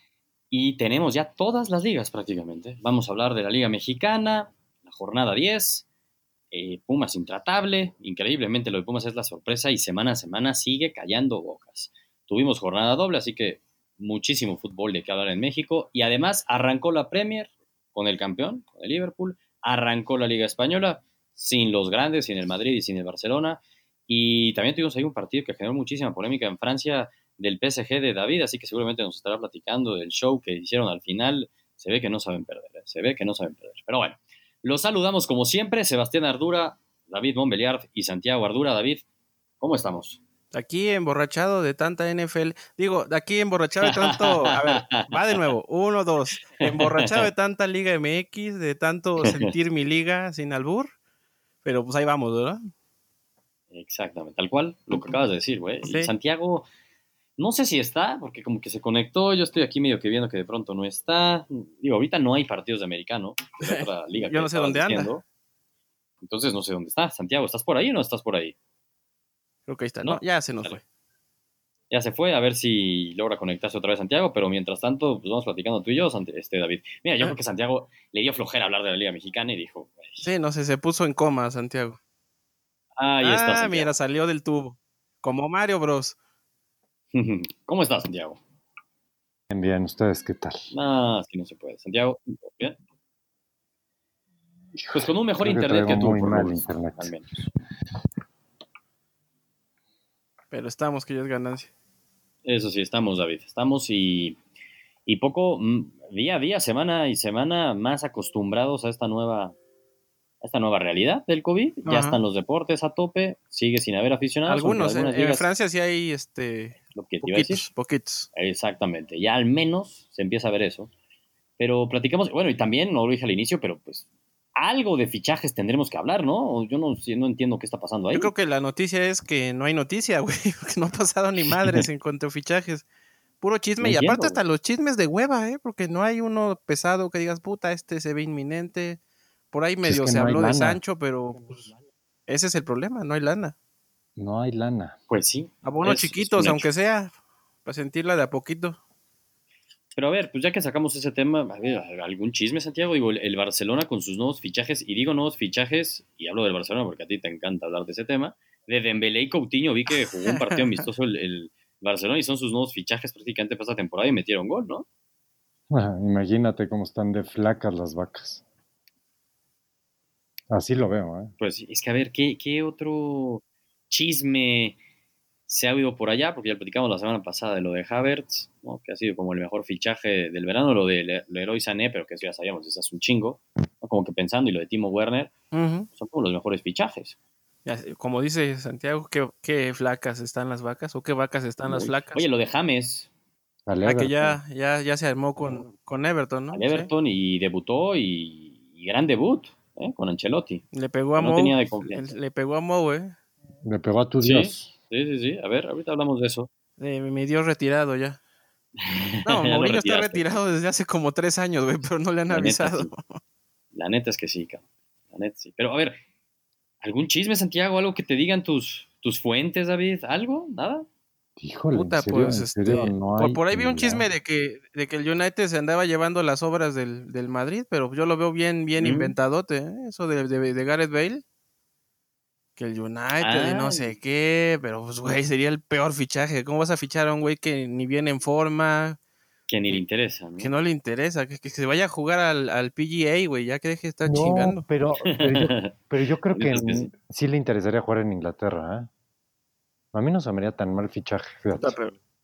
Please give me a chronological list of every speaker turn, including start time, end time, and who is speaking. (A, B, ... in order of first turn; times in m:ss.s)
0:00.5-0:05.8 A
0:06.5-0:39.0 A
0:39.6-0:40.2 A
0:40.5-0:50.9 B
0:43.8-0:45.4 A
0:46.6-0:47.3 A
0:49.2-0:49.5 A
0:51.6-0:52.6 B
0:53.7-0:56.7 A
0:55.9-0:56.1 B
0:57.4-1:05.2 A
1:03.6-1:05.1 B
1:06.2-1:08.6 A
1:09.7-1:10.8 B
1:10.0-1:10.8 A
1:11.9-1:20.3 A
1:20.2-1:22.0 B
1:23.0-1:23.9 A
1:23.2-1:26.2 B
1:27.1-1:28.4 A
1:29.5-1:30.7 C
1:30.7-1:32.8 A
1:34.8-1:37.1 C
1:34.9-1:37.5 A
1:40.5-1:41.7 B
1:42.4-1:44.4 A
1:45.1-1:49.6 A
1:50.4-1:55.5 A
1:51.8-1:52.2 B
1:54.5-1:58.3 B
1:56.9-1:57.7 A
1:58.3-2:00.9 A
2:01.6-2:08.3 A
2:08.1-2:12.8 B
2:11.5-2:11.8 A
2:13.4-2:19.0 B
2:13.8-2:14.4 A
2:19.5-2:21.7 B
2:19.8-2:20.8 C
2:22.3-2:23.6 B
2:24.2-2:25.0 C
2:25.1-2:26.7 A
2:25.6-2:27.1 B
2:27.6-2:28.8 B
2:29.9-2:44.9 A
2:40.0-2:40.9 B
2:45.7-2:48.4 C
2:50.5-2:51.3 C
2:51.4-2:54.8 A
2:55.5-3:05.3 A
3:05.5-3:05.9 B
3:05.9-3:07.2 A
3:07.6-3:12.2 B
3:11.7-3:13.1 A
3:13.7-3:14.4 C
3:13.8-3:16.9 B
3:16.5-3:20.6 A
3:20.7-3:23.2 B
3:21.2-3:22.1 A
3:23.6-3:24.7 C
3:24.2-3:26.5 A
3:26.8-3:28.2 B
3:28.8-3:30.4 A
3:29.2-3:33.2 B
3:32.3-3:32.9 A
3:33.7-3:36.0 A
3:36.8-3:40.9 A
3:41.4-3:44.1 C
3:41.7-3:51.2 B
3:48.8-3:49.2 A
3:52.6-3:59.0 B
3:53.2-3:54.0 A
3:59.5-4:00.5 A
4:00.4-4:04.6 B
4:04.1-4:08.9 C
4:05.1-4:05.8 A
4:06.3-4:06.9 A
4:09.9-4:11.8 C
4:11.5-4:12.0 B